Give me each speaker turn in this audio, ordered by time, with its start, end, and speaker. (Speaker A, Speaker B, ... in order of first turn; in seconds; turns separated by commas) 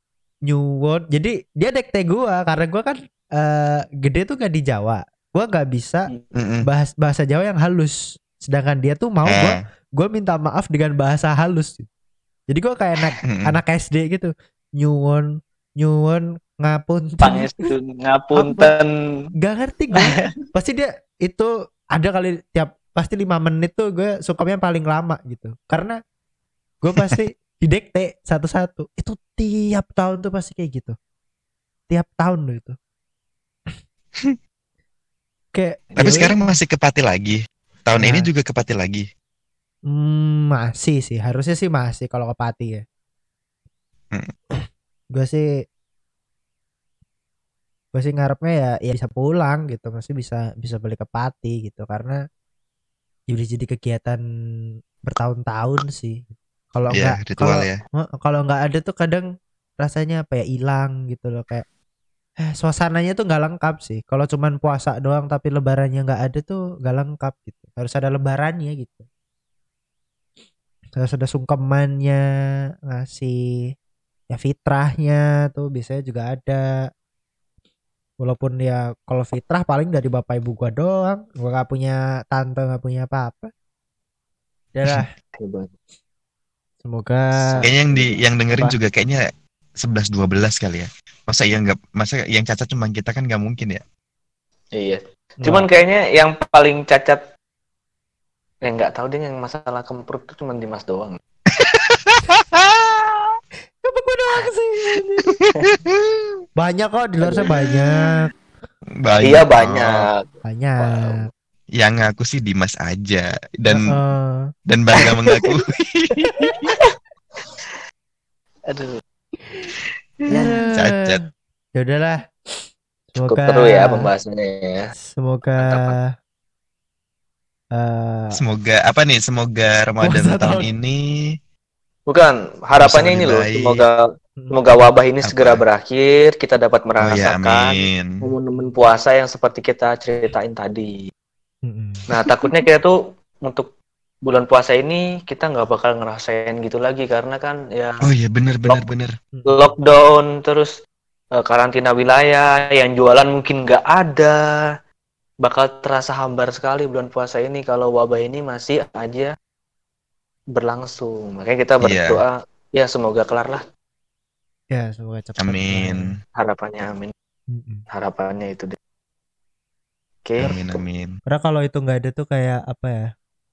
Speaker A: 0.5-6.1, Speaker B: 6.4-6.7, Speaker A: 6.7-11.9, Speaker B: 9.2-9.6, Speaker A: 12.5-15.3, Speaker B: 13.2-13.6, Speaker A: 15.8-17.6, Speaker C: 17.2-18.9, Speaker A: 18.3-18.7, Speaker A: 19.4-26.0, Speaker C: 20.0-20.2, Speaker A: 26.8-30.9, Speaker A: 31.9-32.8, Speaker A: 35.5-36.4, Speaker B: 36.0-39.1, Speaker A: 38.0-38.3, Speaker A: 39.9-42.8, Speaker A: 45.1-45.5, Speaker A: 47.9-52.2, Speaker A: 53.3-54.2, Speaker A: 55.0-59.2, Speaker B: 56.9-57.8, Speaker A: 59.8-61.6, Speaker A: 62.4-69.0, Speaker A: 71.0-72.2, Speaker A: 72.9-73.4, Speaker A: 74.3-76.9, Speaker A: 78.2-83.5, Speaker A: 84.7-85.1, Speaker C: 85.3-85.7, Speaker A: 86.8-87.5, Speaker C: 87.4-88.2, Speaker B: 87.6-89.2, Speaker B: 89.8-93.8, Speaker C: 94.7-97.2, Speaker A: 95.4-95.7, Speaker C: 98.7-101.2, Speaker B: 101.6-102.6, Speaker A: 103.8-105.2, Speaker B: 105.6-106.0, Speaker A: 106.6-108.3, Speaker C: 107.2-107.6, Speaker B: 109.0-109.9, Speaker C: 109.2-110.2, Speaker A: 110.4-111.3, Speaker C: 110.8-111.2, Speaker B: 111.8-113.9, Speaker A: 113.7-114.4, Speaker B: 114.7-116.4, Speaker A: 120.3-121.2, Speaker B: 120.4-121.2, Speaker A: 121.7-122.2, Speaker A: 123.1-124.1, Speaker C: 123.2-124.9, Speaker A: 125.1-126.1, Speaker C: 125.6-125.9, Speaker A: 127.7-128.3, Speaker B: 128.4-131.0, Speaker A: 130.0-130.7, Speaker C: 132.1-141.1, Speaker B: 132.7-133.8, Speaker B: 135.2-135.6, Speaker B: 137.0-138.3, Speaker A: 141.6-142.0, Speaker C: 142.1-143.7, Speaker C: 144.2-148.1, Speaker B: 148.0-149.1, Speaker A: 149.3-149.7, Speaker C: 149.4-150.7, Speaker C: 151.4-154.4, Speaker C: 155.4-159.3, Speaker C: 160.5-163.6, Speaker B: 161.8-162.2, Speaker A: 164.7-166.1, Speaker B: 165.4-166.2, Speaker C: 166.4-167.1, Speaker A: 167.5-167.8, Speaker C: 167.9-168.8, Speaker C: 170.2-170.7, Speaker B: 170.4-171.1, Speaker A: 171.3-173.1